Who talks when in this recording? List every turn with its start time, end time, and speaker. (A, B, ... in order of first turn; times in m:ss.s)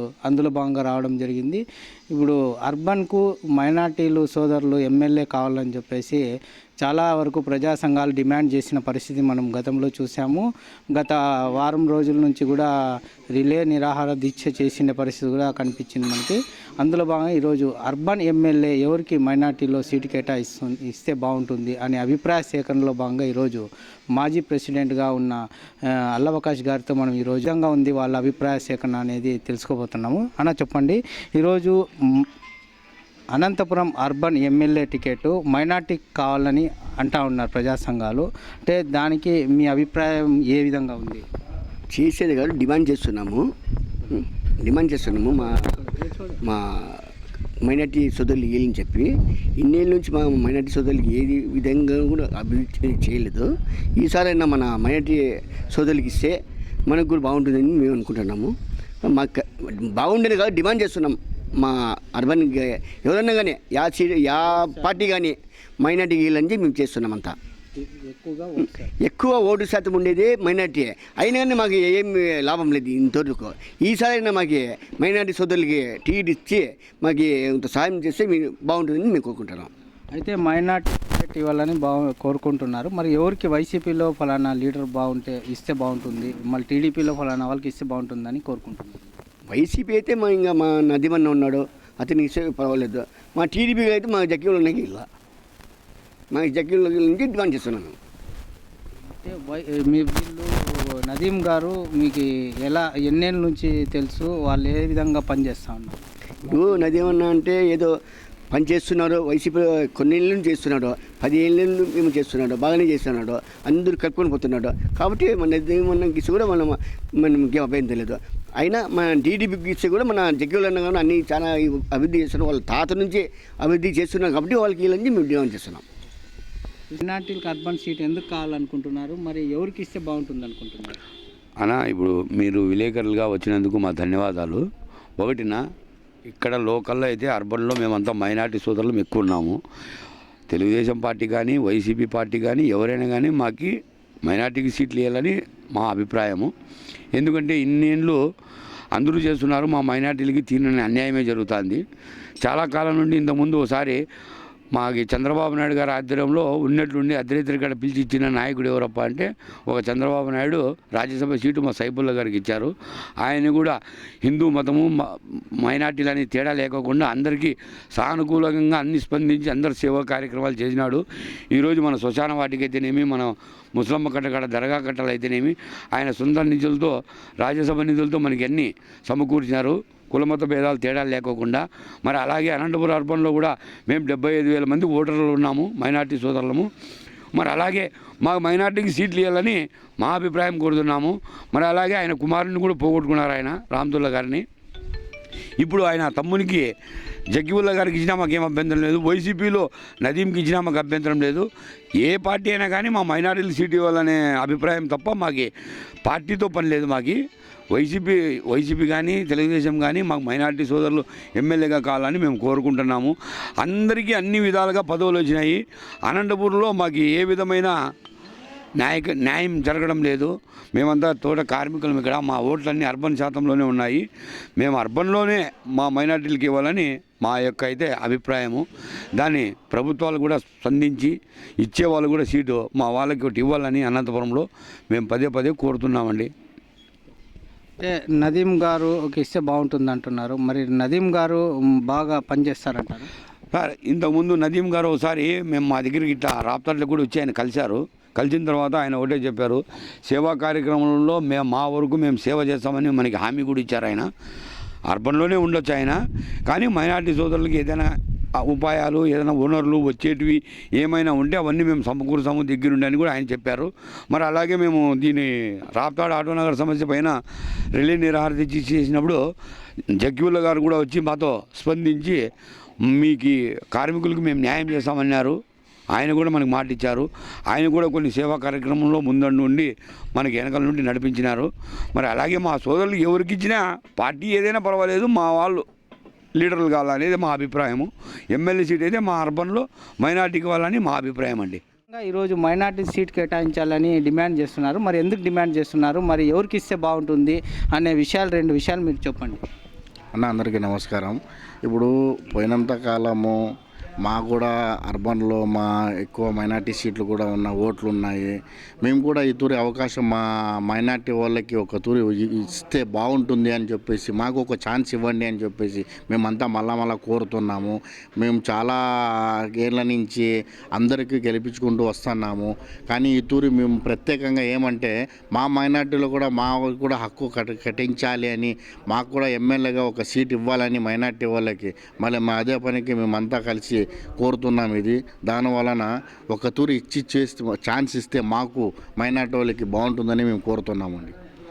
0:00.2-0:06.2 A
0:06.8-0:12.7 A
0:13.4-0:25.4 A
0:26.1-0:32.2 A
0:33.3-0:41.2 A
0:41.9-0:43.4 B
0:44.1-0:45.7 B
0:45.4-0:46.3 A
0:46.4-0:47.1 B
0:47.6-0:56.4 B
0:56.9-0:58.5 B
0:59.0-1:07.4 B
1:04.7-1:05.0 A
1:07.8-1:08.9 A
1:09.0-1:19.7 B
1:20.1-1:29.1 A
1:29.5-1:35.1 B
1:36.3-1:38.0 B
1:39.2-1:46.0 A
1:46.5-1:47.9 B
1:48.5-2:05.8 B
2:06.9-2:11.0 A
2:11.6-2:14.6 C
2:15.2-2:15.6 C
2:16.3-2:19.6 C
2:20.5-2:23.7 C
2:24.3-2:26.5 C
2:27.2-2:28.2 C
2:28.9-2:31.8 C
2:32.4-2:34.0 C
2:34.8-2:44.9 C
2:45.6-3:06.7 C
3:07.3-3:14.5 C
3:15.6-3:16.7 C
3:17.3-3:21.5 C
3:22.0-3:25.5 C
3:26.0-3:27.2 C
3:27.7-3:37.8 C
3:38.8-3:44.0 C
3:44.6-3:48.7 C
3:49.2-3:56.3 C
3:57.8-4:03.1 A
4:03.5-4:14.1 C
4:14.9-4:27.2 C
4:27.7-4:29.2 C
4:30.0-4:32.2 C
4:32.9-4:35.4 C
4:36.0-4:45.6 C
4:46.4-4:51.6 C
4:51.9-4:59.4 A
5:00.2-5:03.4 D
5:04.0-5:41.2 D